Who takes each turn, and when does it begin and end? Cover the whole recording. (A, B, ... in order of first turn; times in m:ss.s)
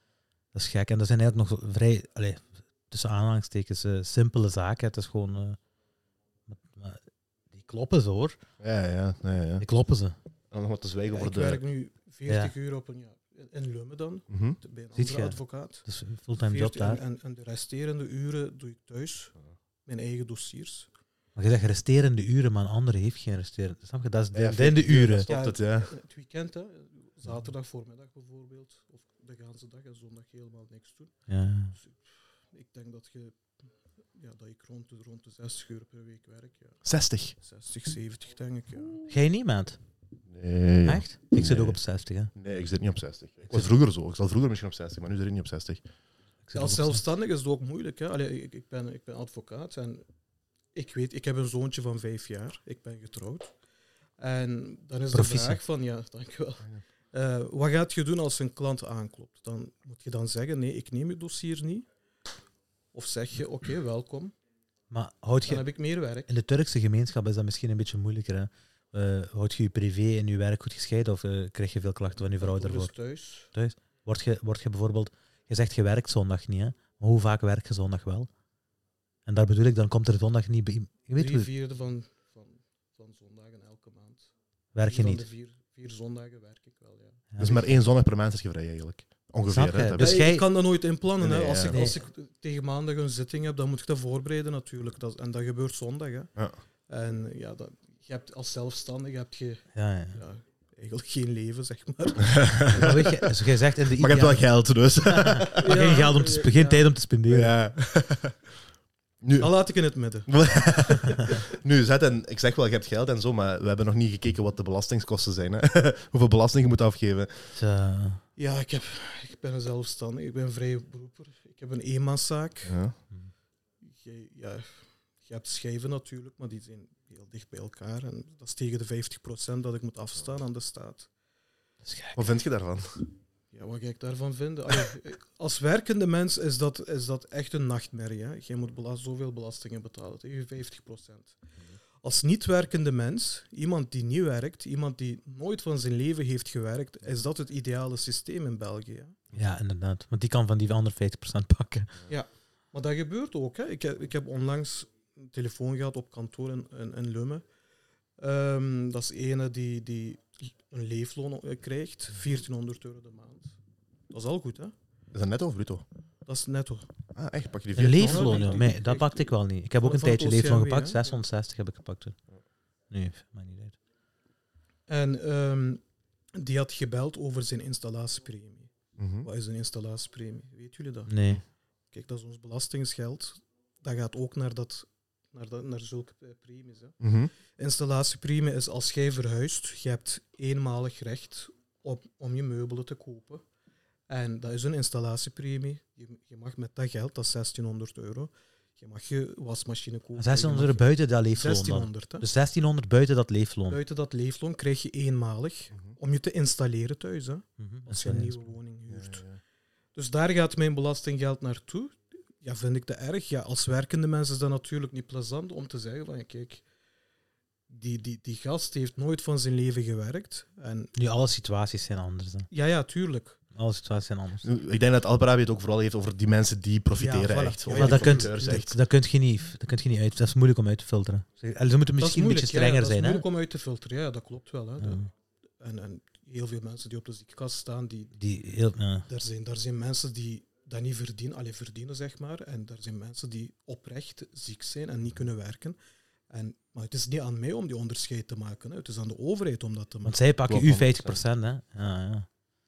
0:00.5-0:05.6 A
0:06.5-0:08.4 A
0:08.6-0:09.6 B
0:09.6-0:10.2 A
0:10.5-0:11.6 B
0:11.1-0:15.8 C
0:12.3-0:12.5 A
0:14.3-0:14.6 B
0:14.9-0:17.0 A
0:16.4-0:19.3 C
0:19.8-0:20.9 C
0:21.4-0:25.3 A
0:24.3-0:25.9 B
0:25.3-0:31.1 C
0:31.3-0:31.8 A
0:31.8-0:33.5 C
0:34.1-0:36.8 C
0:36.8-0:37.4 B
0:37.4-0:39.1 C
0:39.0-0:39.8 A
0:40.3-0:41.8 B
0:40.9-0:42.3 A
0:42.3-0:45.8 B
0:46.4-0:47.0 A
0:46.6-0:50.0 C
0:50.7-0:53.5 C
0:54.2-1:01.9 C
0:55.1-0:55.6 A
1:02.9-1:04.3 C
1:04.9-1:05.7 A
1:05.4-1:06.3 C
1:06.3-1:12.9 A
1:12.4-1:13.5 C
1:13.5-1:18.3 A
1:19.3-1:21.5 A
1:21.2-1:24.3 C
1:24.8-1:25.2 A
1:24.9-1:27.2 C
1:27.3-1:27.7 A
1:27.4-1:30.2 B
1:29.5-1:30.4 A
1:30.0-1:36.3 C
1:31.2-1:31.8 B
1:31.7-1:32.0 A
1:36.9-1:42.5 C
1:39.8-1:40.2 A
1:42.2-1:43.3 B
1:42.7-1:44.5 A
1:43.9-1:45.7 B
1:45.0-1:47.5 A
1:45.6-1:46.9 C
1:47.3-1:48.4 B
1:49.2-1:49.5 B
1:49.4-1:50.3 C
1:50.3-1:57.5 B
1:57.6-1:58.2 A
1:58.4-2:02.8 C
2:02.6-2:03.0 B
2:03.8-2:11.1 C
2:11.8-2:12.3 A
2:12.2-2:13.1 B
2:13.5-2:21.4 C
2:22.0-2:29.2 C
2:29.3-2:31.9 A
2:32.1-2:37.4 C
2:38.2-2:43.6 C
2:44.1-2:44.8 C
2:45.1-2:45.8 B
2:46.3-2:46.9 C
2:47.1-2:48.7 B
2:47.8-2:52.2 A
2:47.9-2:51.2 C
2:52.9-2:53.8 A
2:54.9-2:55.8 C
2:56.4-2:58.7 C
2:59.0-2:59.3 B
2:59.2-3:01.2 C
3:01.1-3:01.4 A
3:01.9-3:07.0 C
3:07.0-3:07.3 B
3:07.6-3:13.4 C
3:14.1-3:22.3 C
3:20.2-3:23.8 A
3:23.7-3:29.2 C
3:27.6-3:28.4 A
3:28.9-3:29.4 B
3:30.0-3:36.6 C
3:37.7-3:40.9 C
3:41.0-3:42.5 A
3:42.5-3:43.4 C
3:43.6-3:44.5 A
3:44.4-3:48.8 B
3:47.0-3:48.6 C
3:47.7-3:53.2 A
3:52.0-3:55.0 C
3:54.8-3:55.1 A
3:55.6-3:58.1 C
3:58.2-3:59.1 A
3:59.1-4:05.8 C
4:06.3-4:10.2 C
4:10.0-4:12.3 A
4:10.5-4:11.2 B